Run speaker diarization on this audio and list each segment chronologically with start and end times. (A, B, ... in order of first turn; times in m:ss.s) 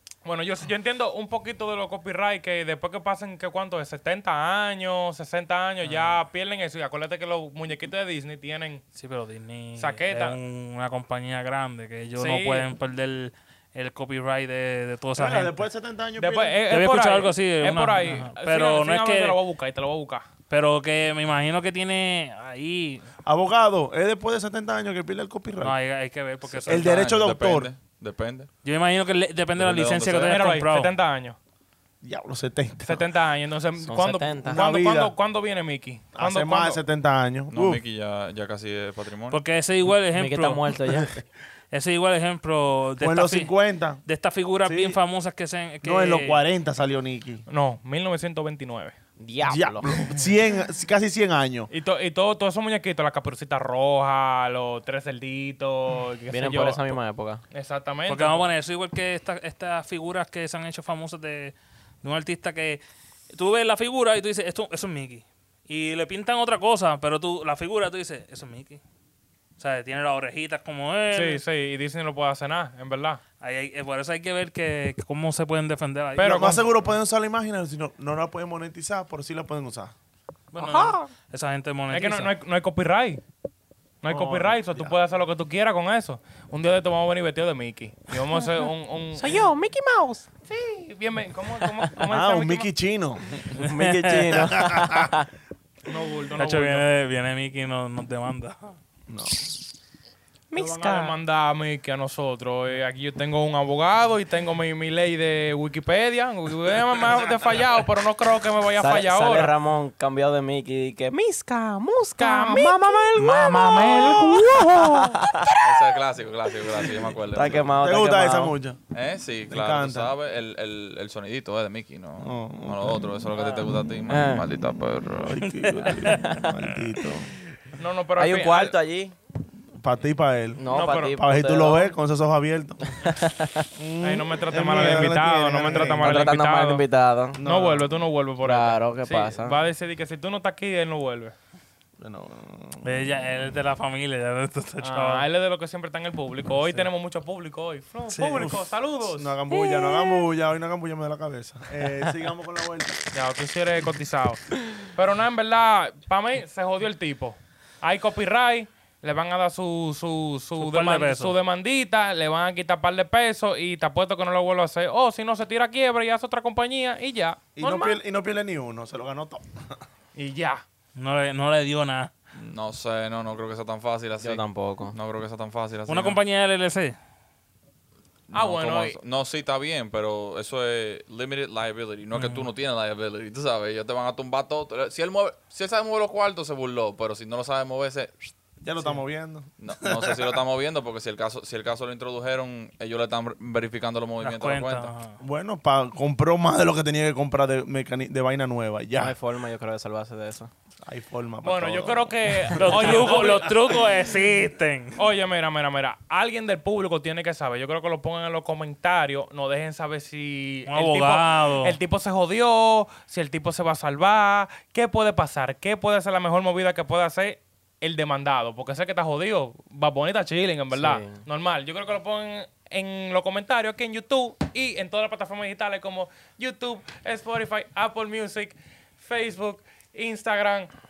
0:00.2-0:08.8 A
0:05.8-0:06.2 B
0:08.9-0:15.6 B
0:09.8-0:10.4 A
0:12.1-0:12.7 A
0:15.1-0:16.6 C
0:16.2-0:20.3 A
0:16.7-0:19.4 B
0:20.5-0:23.0 B
0:23.2-0:25.8 C
0:25.6-0:27.2 B
0:26.5-0:28.5 D
0:26.7-0:27.7 C
0:28.6-0:30.9 B
0:29.6-0:30.4 D
0:30.2-0:31.4 A
0:32.0-0:33.0 C
0:32.8-0:36.8 A
0:33.8-0:34.6 E
0:34.5-0:35.1 C
0:36.1-0:37.8 C
0:37.5-0:39.4 D
0:39.3-0:40.8 B
0:40.1-0:41.2 E
0:41.7-0:43.5 B
0:43.0-0:44.0 C
0:44.0-0:46.4 B
0:44.6-0:45.0 C
0:45.8-0:47.4 C
0:47.5-0:48.9 A
0:49.2-0:50.0 E
0:49.4-0:51.7 C
0:51.7-0:57.0 A
0:56.3-0:57.4 E
0:57.5-0:58.5 A
0:58.1-1:02.8 B
1:03.3-1:08.8 B
1:09.6-1:11.4 B
1:11.1-1:13.2 A
1:13.4-1:16.4 B
1:16.2-1:16.6 A
1:16.2-1:19.9 C
1:20.5-1:22.3 B
1:20.6-1:21.1 E
1:21.9-1:23.2 A
1:24.0-1:29.5 A
1:24.1-1:25.0 C
1:29.2-1:30.3 E
1:30.5-1:32.7 A
1:31.6-1:31.9 E
1:32.1-1:35.1 C
1:33.5-1:35.3 E
1:35.8-1:36.9 A
1:36.4-1:38.8 B
1:39.1-1:39.4 C
1:40.5-1:41.2 E
1:40.5-1:49.5 A
1:48.8-1:55.9 E
1:52.2-1:53.2 A
1:53.1-1:57.7 D
1:53.9-1:54.4 A
1:56.7-1:58.5 E
1:57.8-1:58.8 C
1:58.9-2:05.5 D
1:59.5-2:00.1 C
2:02.2-2:03.1 C
2:03.4-2:04.4 E
2:05.2-2:07.4 C
2:05.4-2:06.2 B
2:05.8-2:06.5 E
2:07.8-2:08.8 A
2:08.2-2:09.1 E
2:09.8-2:12.9 C
2:10.6-2:11.9 E
2:10.7-2:11.2 A
2:12.9-2:13.7 E
2:13.8-2:16.3 C
2:14.0-2:16.8 A
2:14.8-2:15.0 E
2:15.7-2:17.4 E
2:17.3-2:17.9 C
2:17.4-2:21.3 A
2:18.4-2:19.6 E
2:22.0-2:23.0 C
2:22.8-2:25.3 B
2:24.8-2:29.3 A
2:28.1-2:33.0 C
2:29.5-2:30.3 E
2:33.1-2:47.9 A
2:40.6-2:41.4 B
2:47.6-2:49.8 C
2:50.2-2:50.6 A
2:51.0-2:52.1 B
2:52.3-2:56.2 D
2:54.2-2:54.9 E
2:55.9-2:57.0 B
2:58.3-3:08.3 D
2:58.3-2:59.0 A
3:02.1-3:02.5 B
3:08.6-3:10.4 C
3:09.6-3:14.9 D
3:14.2-3:15.2 B
3:15.2-3:19.1 C
3:19.0-3:20.5 E
3:20.8-3:23.1 C
3:21.4-3:23.6 A
3:22.6-3:25.0 B
3:25.0-3:50.7 A
3:30.7-3:31.8 B
3:40.7-3:41.2 E